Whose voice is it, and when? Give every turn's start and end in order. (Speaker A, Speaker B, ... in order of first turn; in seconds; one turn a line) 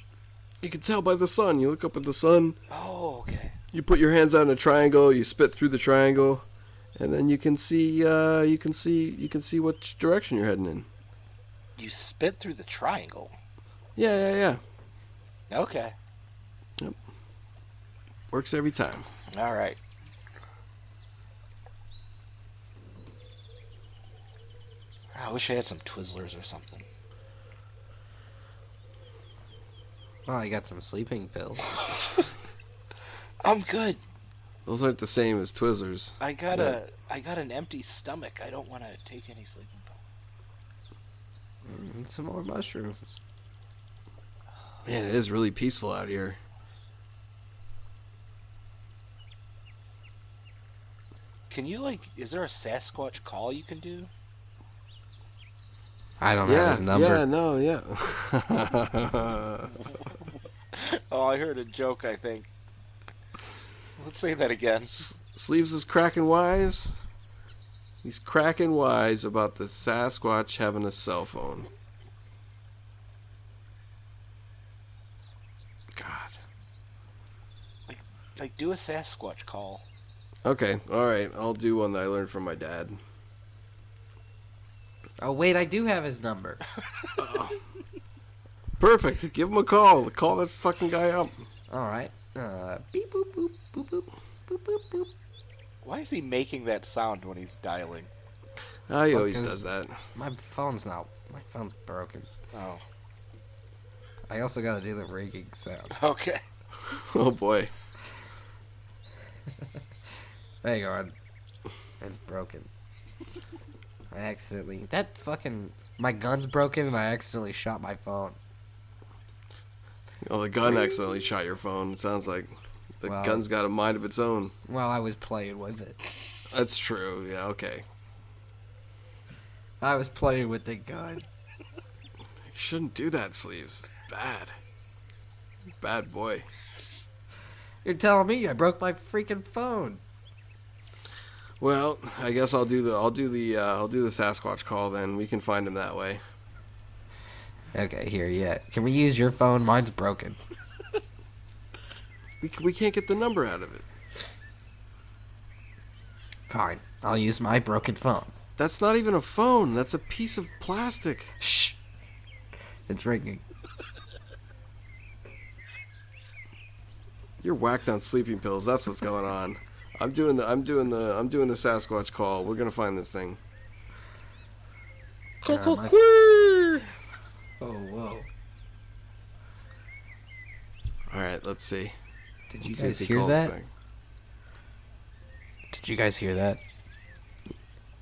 Speaker A: 0.6-2.6
Speaker B: 2.7-3.6
Speaker A: 3.7-6.4
Speaker A: 7.0-10.9
Speaker B: 11.8-13.3
Speaker A: 14.0-14.6
Speaker B: 15.5-15.9
Speaker A: 18.3-19.1
Speaker B: 19.3-19.8
Speaker B: 25.1-26.9
Speaker C: 30.3-31.7
Speaker B: 33.4-34.0
Speaker A: 34.7-36.8
Speaker B: 36.2-40.0
Speaker C: 41.6-43.2
Speaker A: 44.9-46.4
Speaker B: 51.5-54.1
Speaker C: 56.2-57.2
Speaker A: 56.5-59.8
Speaker B: 60.7-62.5
Speaker B: 64.0-65.1
Speaker A: 64.8-67.0
Speaker A: 68.0-71.7
Speaker A: 75.9-76.4
Speaker B: 77.9-79.8
Speaker A: 80.4-83.0
Speaker C: 85.2-86.6
Speaker A: 87.2-87.6
Speaker A: 88.8-91.5
Speaker C: 91.7-95.1
Speaker B: 95.8-98.1
Speaker A: 98.9-100.0
Speaker C: 99.1-99.6
Speaker C: 100.1-102.3
Speaker B: 102.5-102.8
Speaker C: 104.3-106.0
Speaker B: 105.9-106.4
Speaker A: 106.8-107.7
Speaker C: 110.6-111.2
Speaker C: 112.0-112.7
Speaker C: 114.1-118.4
Speaker A: 120.2-124.5
Speaker C: 123.0-123.4
Speaker C: 124.7-126.0
Speaker A: 126.5-127.8
Speaker C: 129.8-131.2
Speaker A: 132.4-134.6
Speaker A: 135.8-136.5
Speaker C: 137.8-140.0
Speaker A: 141.6-146.2
Speaker C: 147.7-150.4
Speaker A: 152.4-153.8
Speaker C: 156.5-158.3
Speaker A: 158.6-161.3
Speaker C: 161.4-161.8
Speaker C: 162.9-163.4
Speaker A: 167.4-173.4
Speaker A: 175.4-176.9
Speaker C: 175.4-175.9
Speaker C: 177.6-178.3
Speaker A: 181.1-181.9
Speaker C: 182.5-183.5
Speaker A: 182.6-183.7
Speaker C: 185.7-186.6